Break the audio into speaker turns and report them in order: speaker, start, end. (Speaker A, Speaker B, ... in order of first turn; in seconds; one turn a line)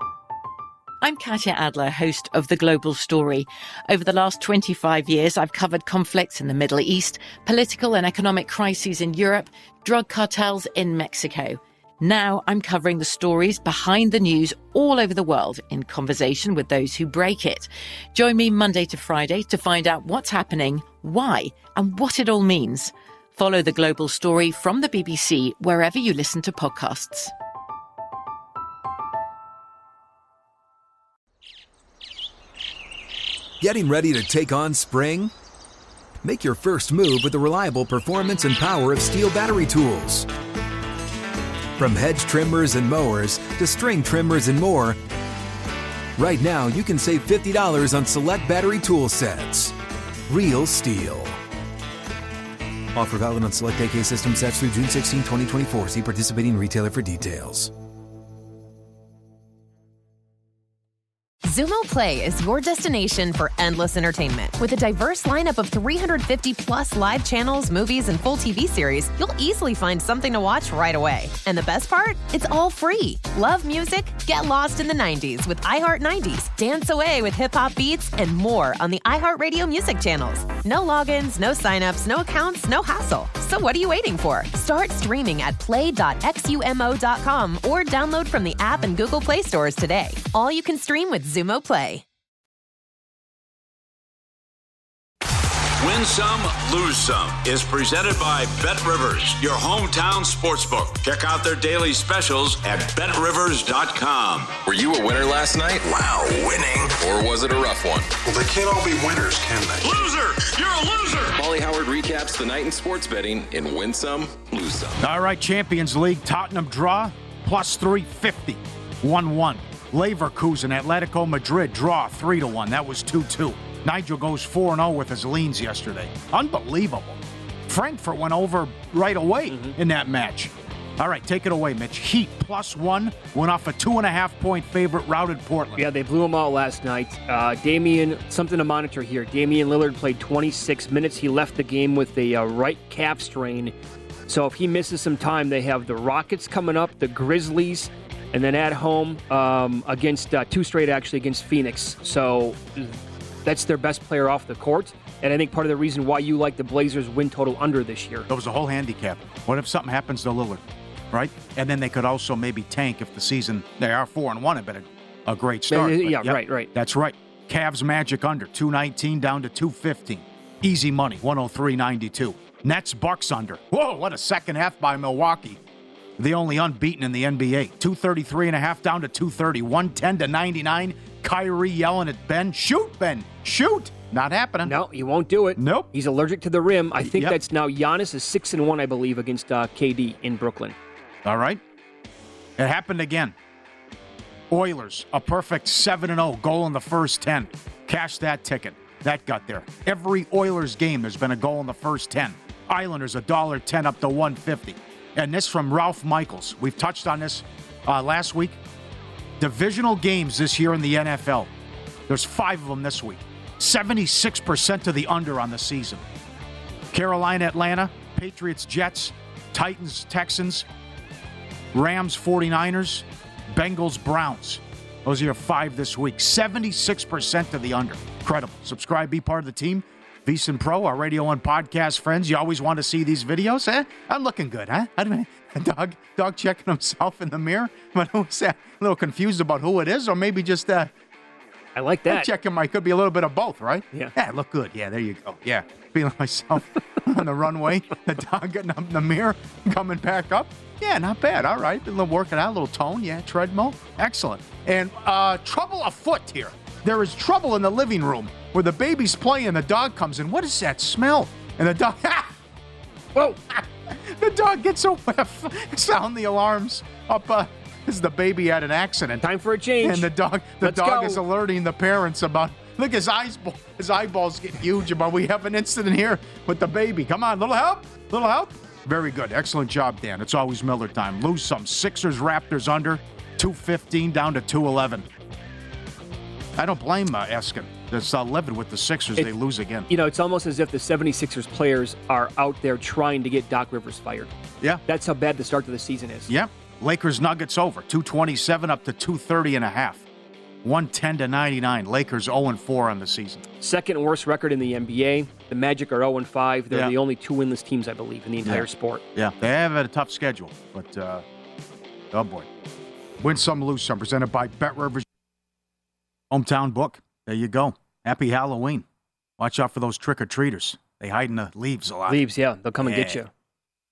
Speaker A: 1.0-27.3
Speaker B: 33.6-35.3
Speaker B: 36.2-40.3
Speaker B: 41.8-45.0
Speaker B: 46.2-49.7
Speaker B: 50.3-51.4
Speaker B: 52.9-57.7
Speaker C: 61.4-92.0
Speaker D: 95.8-104.6
Speaker E: 104.6-108.1
Speaker F: 106.6-106.9
Speaker F: 108.2-110.0
Speaker D: 109.8-111.3
Speaker E: 111.3-115.0
Speaker G: 115.0-135.8
Speaker H: 129.5-129.8
Speaker H: 135.8-143.7
Speaker H: 144.3-158.3
Speaker G: 158.3-175.6
Speaker H: 165.7-166.7
Speaker G: 176.2-184.8
Speaker H: 184.6-190.7
Speaker G: 185.6-185.9
Speaker G: 187.0-187.4
Speaker G: 191.2-191.6
Speaker G: 192.6-193.3
Speaker G: 194.5-208.6
Speaker G: 209.4-211.5
Speaker G: 212.1-216.0
Speaker G: 216.9-220.7
Speaker G: 221.7-240.9
Speaker H: 241.7-242.3
Speaker G: 242.1-262.3
Speaker G: 263.5-269.2
Speaker H: 269.2-270.1
Speaker G: 269.8-285.1
Speaker H: 270.6-271.2
Speaker G: 286.6-289.9
Speaker H: 289.9-294.3
Speaker H: 294.9-296.3
Speaker G: 296.3-300.0
Speaker G: 300.6-303.4
Speaker H: 303.6-309.0
Speaker G: 306.7-306.9
Speaker G: 308.4-311.2
Speaker G: 312.1-312.5
Speaker G: 313.2-315.1
Speaker G: 316.3-318.8
Speaker G: 319.4-322.2
Speaker H: 322.1-323.3
Speaker G: 322.8-323.2